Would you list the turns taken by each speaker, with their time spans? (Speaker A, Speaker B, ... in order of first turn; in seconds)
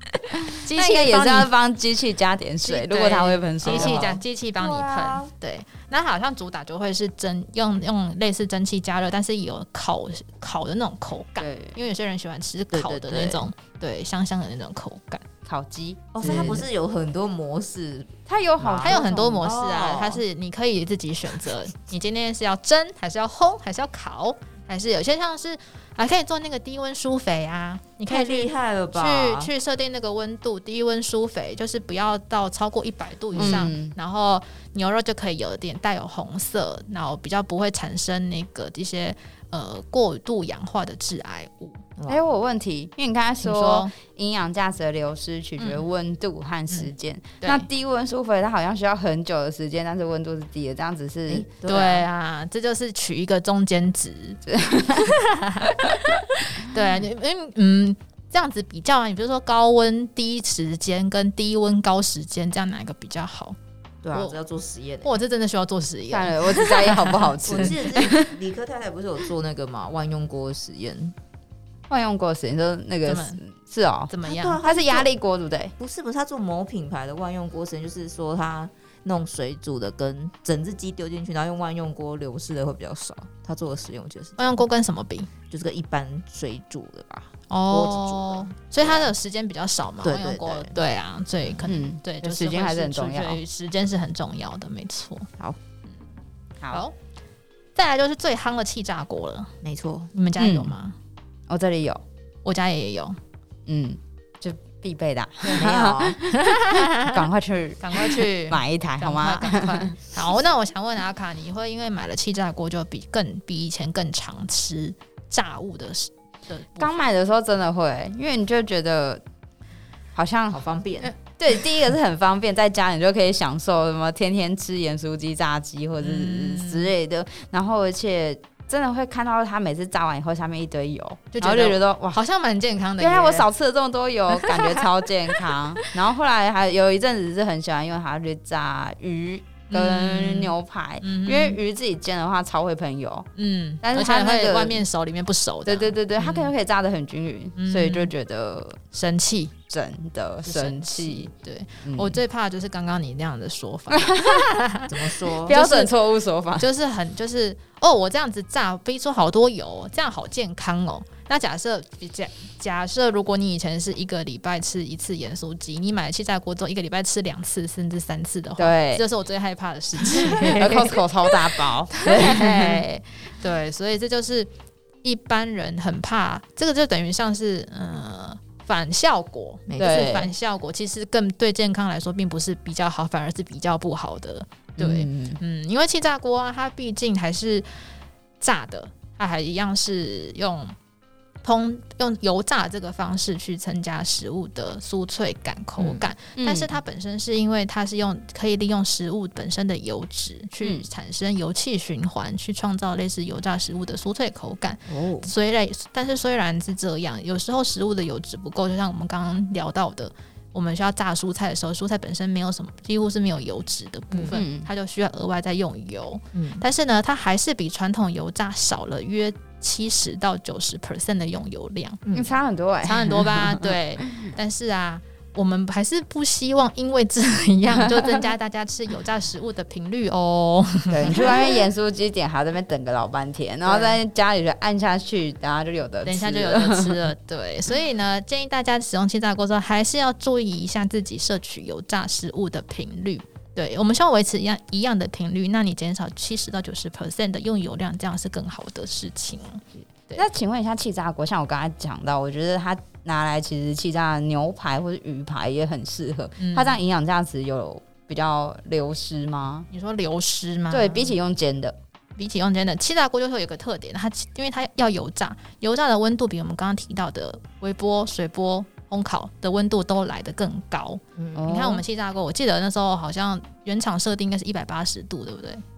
Speaker A: 0.4-1.5, 2.6-15.2, 16.2-16.6, 18.8-41.8, 43.4-43.9, 45.6-45.8, 47.4-47.7, 51.6-54.4, 54.9-63.6, 65.0-67.7, 73.0-73.4, 74.1-74.6, 84.4-85.3, 87.5-95.3, 97.7-99.5, 100.1-100.9, 102.4-103.2, 106.3-107.2, 107.8-117.0, 126.0-126.9, 131.3-133.5, 134.3-134.8, 139.7-141.6, 143.3-146.5, 147.6-148.1, 148.9-149.5, 150.4-154.9, 155.4-155.9, 156.6-174.5, 175.0-187.8, 188.4-190.7, 191.4-222.0, 222.8-231.4, 233.7-234.0, 236.0-250.2, 256.4-256.8, 259.7-261.2, 262.2-275.6
Speaker B: 0.6-4.2, 11.4-11.8, 15.4-16.6, 18.3-19.4, 33.4-33.9, 42.1-51.5, 54.5-55.2, 66.1-68.3, 71.9-74.1, 74.6-75.7, 91.7-93.4, 100.4-100.7, 101.5-102.0, 103.7-110.0, 116.8-119.2, 120.1-120.6, 121.2-132.2, 133.0-143.3, 143.8-144.8, 145.7-148.8, 149.7-151.3, 151.8-152.2, 153.9-154.5, 155.4-156.7, 168.6-169.0, 170.2-172.8, 179.8-180.3, 184.8-185.4, 196.4-196.7, 214.3-214.7, 222.1-224.3, 230.9-237.0, 250.2-259.7, 260.7-261.8, 271.4-271.8
Speaker C: 3.6-5.3, 12.7-13.4, 16.1-20.2, 28.1-29.5, 33.3-33.7, 42.0-42.3, 51.3-52.0, 64.0-65.1, 67.4-71.1, 74.2-75.1, 75.8-84.6, 85.5-89.1, 90.0-90.8, 99.6-100.1, 105.5-106.2, 120.5-121.1, 154.9-155.6, 179.7-180.2, 204.9-205.3, 214.1-214.4, 216.3-216.6, 222.0-222.4, 271.1-271.4